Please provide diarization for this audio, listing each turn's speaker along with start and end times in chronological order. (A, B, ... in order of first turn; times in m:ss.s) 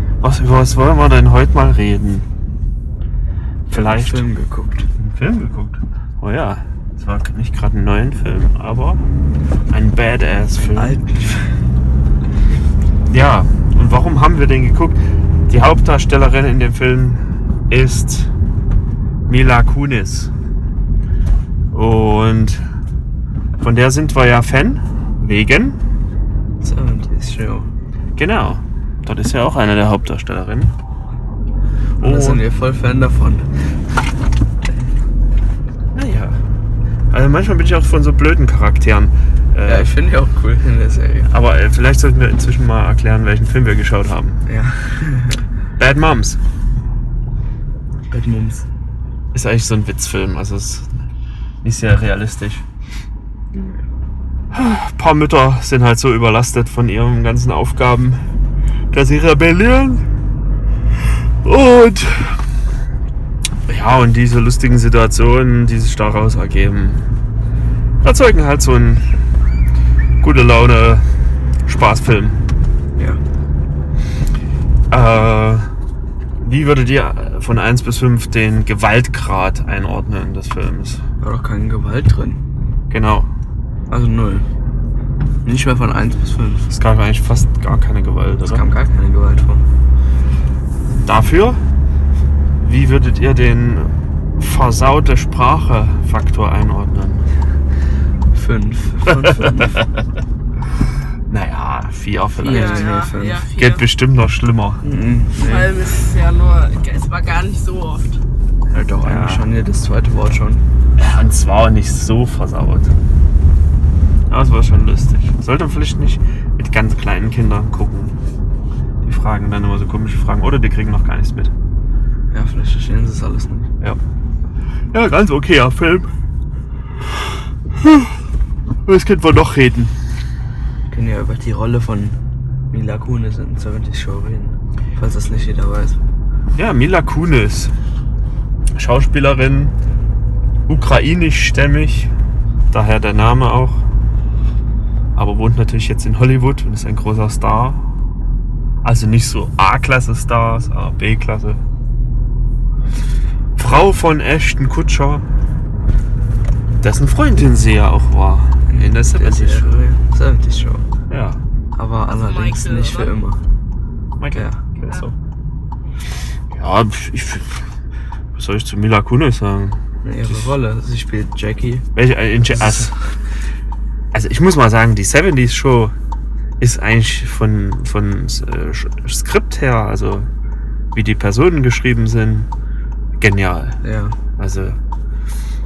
0:00.2-0:02.3 A
0:03.7-0:04.3 A
0:03.7-0:04.9 B
0:05.0-0:09.0 A
0:09.7-0:11.0 A
0:10.6-0:11.5 B
0:13.1-0:18.3 A
0:19.3-0:20.3 A
0:21.7-0:22.6 A
0:23.6-0:25.8 A
0:26.6-0:27.7 B
0:28.2-0:30.7 A
0:32.0-0:32.4 A
0:32.0-0:33.5 B
0:35.9-0:36.4 A
0:37.1-0:39.9 A
0:39.6-0:41.3 B
0:41.3-0:44.4 A
0:44.5-0:45.4 B
0:45.8-0:46.4 A
0:48.1-0:48.7 B
0:49.3-0:50.9 A
0:51.6-0:52.6 A
0:53.5-0:53.8 B
0:54.5-0:58.2 A
0:58.9-1:00.1 A
1:01.4-1:02.4 A
1:03.7-1:07.0 A
1:08.0-1:09.0 A
1:10.2-1:11.0 A
1:11.7-1:12.4 A
1:14.9-1:15.7 A
1:16.4-1:21.0 A
1:21.2-1:22.4 B
1:22.9-1:23.3 A
1:23.9-1:24.5 B
1:25.5-1:26.7 B
1:26.7-1:28.7 A
1:28.4-1:29.6 B
1:31.0-1:31.6 A
1:32.6-1:37.2 A
1:38.3-1:39.8 B
1:39.1-1:40.0 A
1:41.3-1:42.9 A
1:42.4-1:43.5 B
1:42.5-1:43.9 C
1:43.5-1:44.8 A
1:44.8-1:45.8 B
1:45.4-1:48.2 C
1:48.7-1:50.6 B
1:49.0-1:49.5 A
1:51.0-1:53.0 A
1:54.3-1:58.2 A
1:59.0-2:01.5 A
2:02.3-2:03.7 B
2:04.9-2:06.1 A
2:07.7-2:08.2 A
2:08.8-2:09.9 A
2:10.9-2:12.2 B
2:12.7-2:16.0 B
2:16.5-2:17.7 A
2:18.8-2:19.8 A
2:20.7-2:22.1 A
2:22.7-2:23.8 A
2:25.2-2:27.9 A
2:28.8-2:31.6 A
2:33.6-2:35.2 A
2:36.8-2:39.8 A
2:38.7-2:40.9 B
2:41.1-2:41.4 A
2:41.8-2:43.4 B
2:42.1-2:43.1 C
2:44.2-2:45.2 A
2:44.3-2:44.6 B
2:46.5-2:47.6 A
2:48.4-2:50.5 A
2:50.0-2:51.9 B
2:52.0-2:53.0 A
2:54.1-2:55.9 A
2:56.6-3:00.3 A
3:00.9-3:02.5 A
3:03.2-3:03.8 A
3:03.8-3:04.2 B
3:04.4-3:04.8 A